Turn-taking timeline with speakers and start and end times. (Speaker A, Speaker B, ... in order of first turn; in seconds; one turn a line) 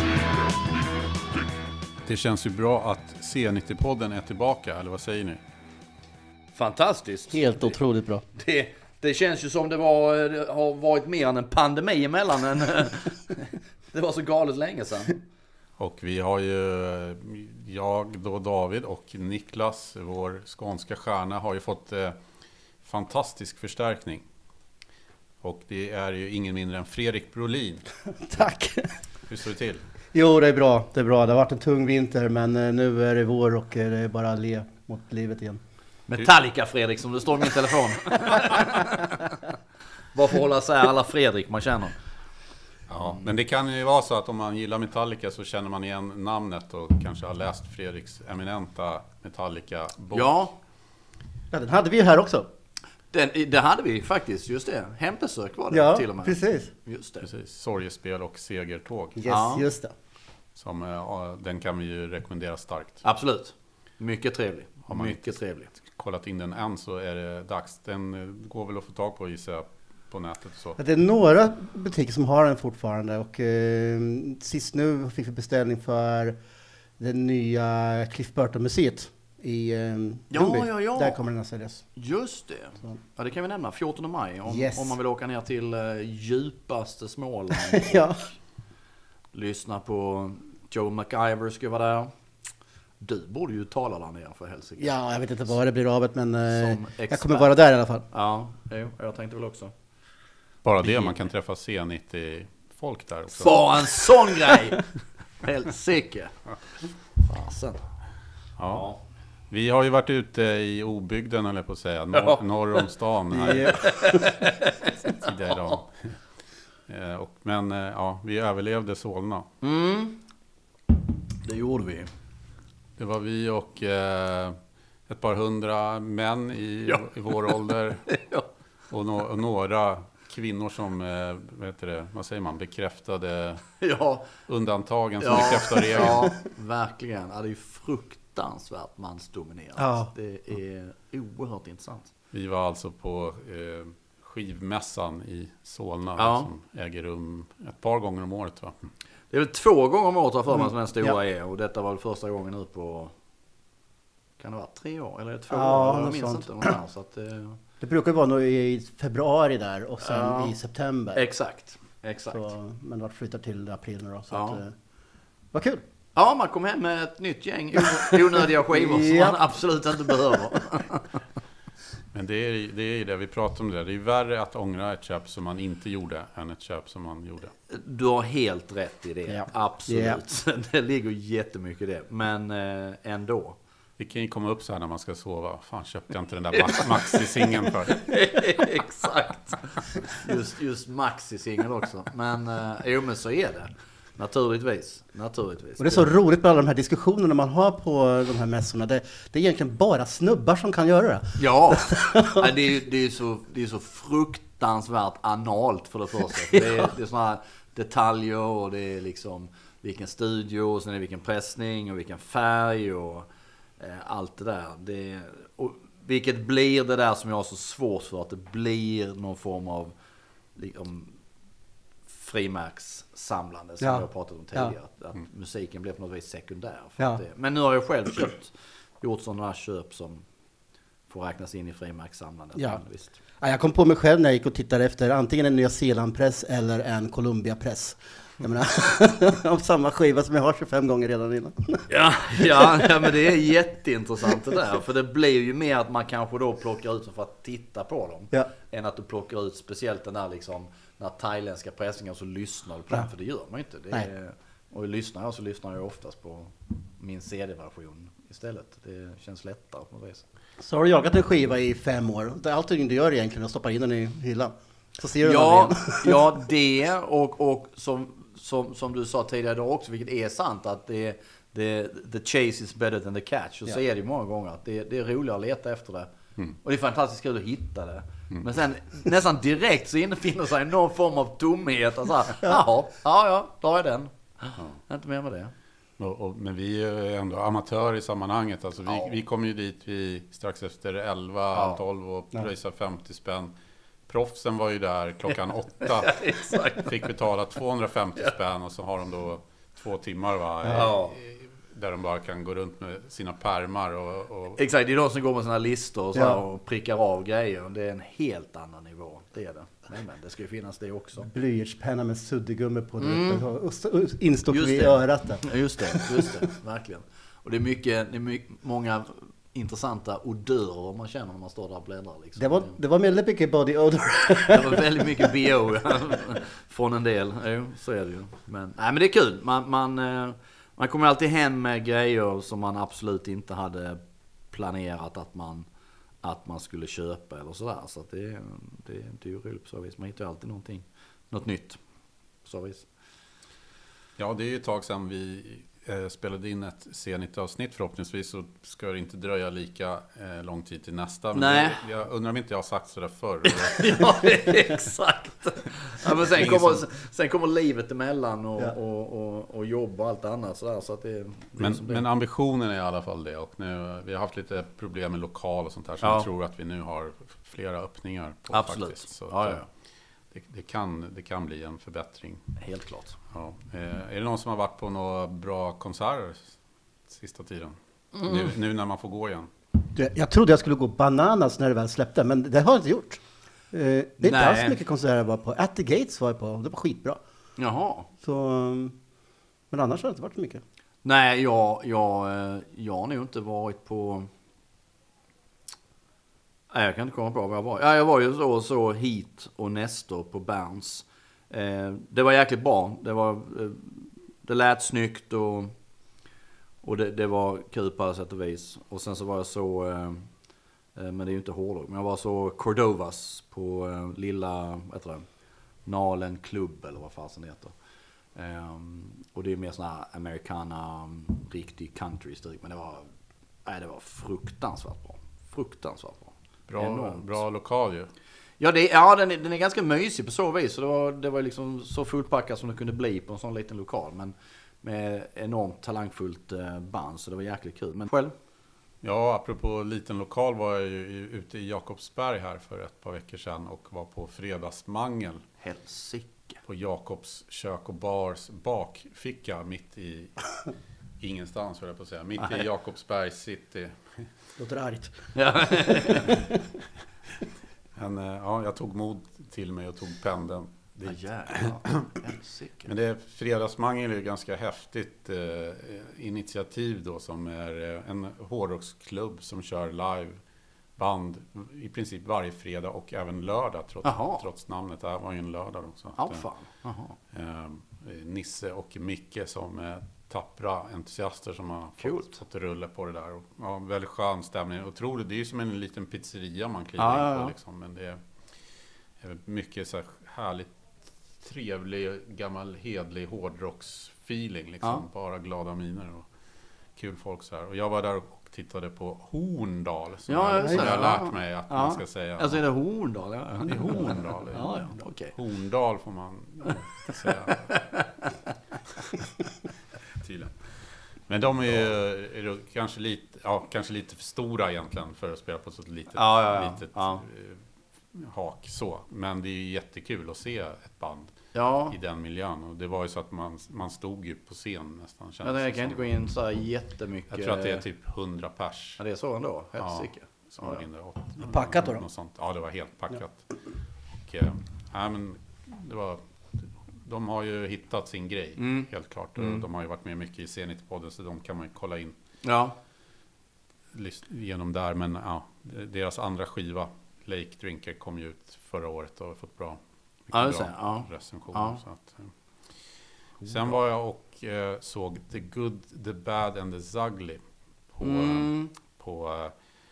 Speaker A: 2.0-5.4
Speaker B: 6.5-7.8
Speaker C: 7.3-8.2
Speaker B: 8.3-15.2
Speaker A: 15.8-22.2
Speaker A: 22.8-24.2
Speaker A: 25.4-27.9
Speaker C: 28.1-28.9
Speaker A: 29.3-29.8
Speaker C: 30.1-35.6
Speaker B: 36.1-39.3
Speaker B: 40.1-42.0
Speaker A: 42.9-50.4
Speaker B: 50.1-50.5
Speaker C: 51.5-52.5
Speaker B: 53.1-57.3
Speaker C: 55.7-56.7
Speaker A: 57.2-59.2
Speaker C: 59.1-59.9
Speaker B: 59.3-59.6
Speaker A: 60.5-63.0
Speaker B: 63.0-65.7
Speaker A: 64.9-70.8
Speaker C: 70.8-76.4
Speaker C: 77.0-81.8
Speaker B: 80.3-81.2
Speaker B: 82.0-88.0
Speaker C: 84.5-85.0
Speaker C: 87.6-88.2
Speaker B: 89.3-92.1
Speaker B: 93.0-94.9
Speaker C: 94.8-98.0
Speaker B: 96.5-97.5
Speaker B: 98.1-99.7
Speaker A: 100.6-103.8
Speaker B: 100.8-101.2
Speaker B: 103.3-104.8
Speaker B: 105.4-106.3
Speaker B: 107.2-107.9
Speaker A: 108.6-108.8
Speaker B: 108.7-109.0
Speaker A: 109.5-114.2
Speaker B: 112.1-112.8
Speaker C: 113.3-114.2
Speaker B: 113.7-114.9
Speaker A: 115.0-116.2
Speaker A: 116.9-119.5
Speaker B: 119.6-120.2
Speaker B: 121.4-122.1
Speaker A: 123.0-128.1
Speaker B: 126.9-127.5
Speaker B: 128.1-128.5
Speaker A: 128.9-133.7
Speaker B: 133.8-134.3
Speaker A: 134.4-136.3
Speaker B: 135.2-142.1
Speaker C: 139.8-140.1
Speaker A: 142.3-148.9
Speaker B: 146.2-146.5
Speaker B: 149.3-153.1
Speaker B: 154.4-157.6
Speaker C: 155.5-156.7
Speaker C: 157.8-161.2
Speaker B: 160.0-160.5
Speaker B: 161.1-162.5
Speaker C: 162.3-164.7
Speaker B: 164.3-164.6
Speaker C: 165.5-165.8
Speaker B: 166.1-171.2
Speaker C: 168.7-169.4
Speaker A: 172.1-177.5
Speaker B: 177.7-183.6
Speaker C: 179.3-180.2
Speaker A: 184.0-188.1
Speaker B: 186.6-187.2
Speaker B: 187.9-196.1
Speaker C: 195.8-202.5
Speaker B: 201.4-213.3
Speaker C: 206.3-206.8
Speaker B: 213.8-219.9
Speaker B: 220.6-221.2
Speaker B: 222.1-230.2
Speaker C: 223.8-224.7
Speaker B: 231.1-233.2
Speaker C: 232.5-232.8
Speaker C: 233.4-243.2
Speaker B: 241.9-260.2
Speaker C: 260.6-266.2
Speaker B: 265.2-276.1
Speaker B: 276.6-285.5
Speaker A: 286.0-293.5
Speaker B: 288.9-289.1
Speaker B: 291.5-291.8
Speaker A: 294.1-296.2
Speaker B: 295.8-296.9
Speaker A: 296.7-304.6
Speaker B: 300.7-301.1
Speaker B: 304.6-311.3
Speaker C: 306.1-306.4
Speaker C: 311.2-316.2
Speaker B: 313.0-313.4
Speaker B: 314.5-322.8
Speaker C: 322.4-325.3
Speaker B: 324.4-335.7
Speaker B: 336.2-341.8
Speaker B: 342.4-342.9
Speaker A: 344.2-354.2
Speaker B: 351.3-351.8
Speaker B: 353.4-362.0
Speaker A: 356.3-356.8
Speaker A: 361.6-369.6
Speaker B: 366.0-366.3
Speaker B: 368.5-369.7
Speaker A: 370.3-372.5
Speaker B: 372.6-373.2
Speaker A: 373.3-376.6
Speaker A: 377.1-379.5
Speaker B: 378.1-378.5
Speaker C: 379.9-387.2
Speaker B: 384.2-384.8
Speaker B: 387.6-388.1
Speaker C: 388.2-389.0
Speaker C: 389.7-390.6
Speaker B: 391.0-394.3
Speaker B: 396.7-405.7
Speaker B: 406.8-410.3
Speaker B: 410.9-415.3
Speaker B: 415.8-417.7
Speaker B: 418.3-423.1
Speaker B: 423.6-427.4
Speaker A: 426.7-428.1
Speaker B: 428.6-438.3
Speaker A: 439.0-445.4
Speaker B: 445.6-446.6
Speaker A: 446.6-450.7
Speaker A: 451.2-454.3
Speaker C: 454.6-456.6
Speaker B: 455.3-456.3
Speaker A: 457.9-462.1
Speaker B: 461.0-462.9
Speaker A: 462.9-470.4
Speaker A: 471.0-476.5
Speaker B: 474.0-474.4
Speaker B: 476.2-477.1
Speaker A: 477.3-488.6
Speaker B: 482.0-482.4
Speaker B: 487.0-487.5
Speaker A: 489.2-490.8
Speaker A: 491.3-496.3
Speaker A: 496.9-502.6
Speaker B: 500.3-505.3
Speaker C: 500.6-500.9
Speaker A: 503.5-507.8
Speaker B: 507.7-508.3
Speaker A: 510.2-526.1
Speaker B: 516.1-517.2
Speaker B: 521.5-522.0
Speaker B: 525.4-527.8
Speaker A: 527.3-529.0
Speaker B: 529.0-530.8
Speaker A: 529.8-542.1
Speaker C: 531.4-532.0
Speaker B: 538.6-539.6
Speaker B: 542.4-542.8
Speaker A: 543.9-552.9
Speaker B: 550.3-551.8
Speaker A: 553.4-559.5
Speaker B: 553.4-553.7
Speaker B: 558.0-558.7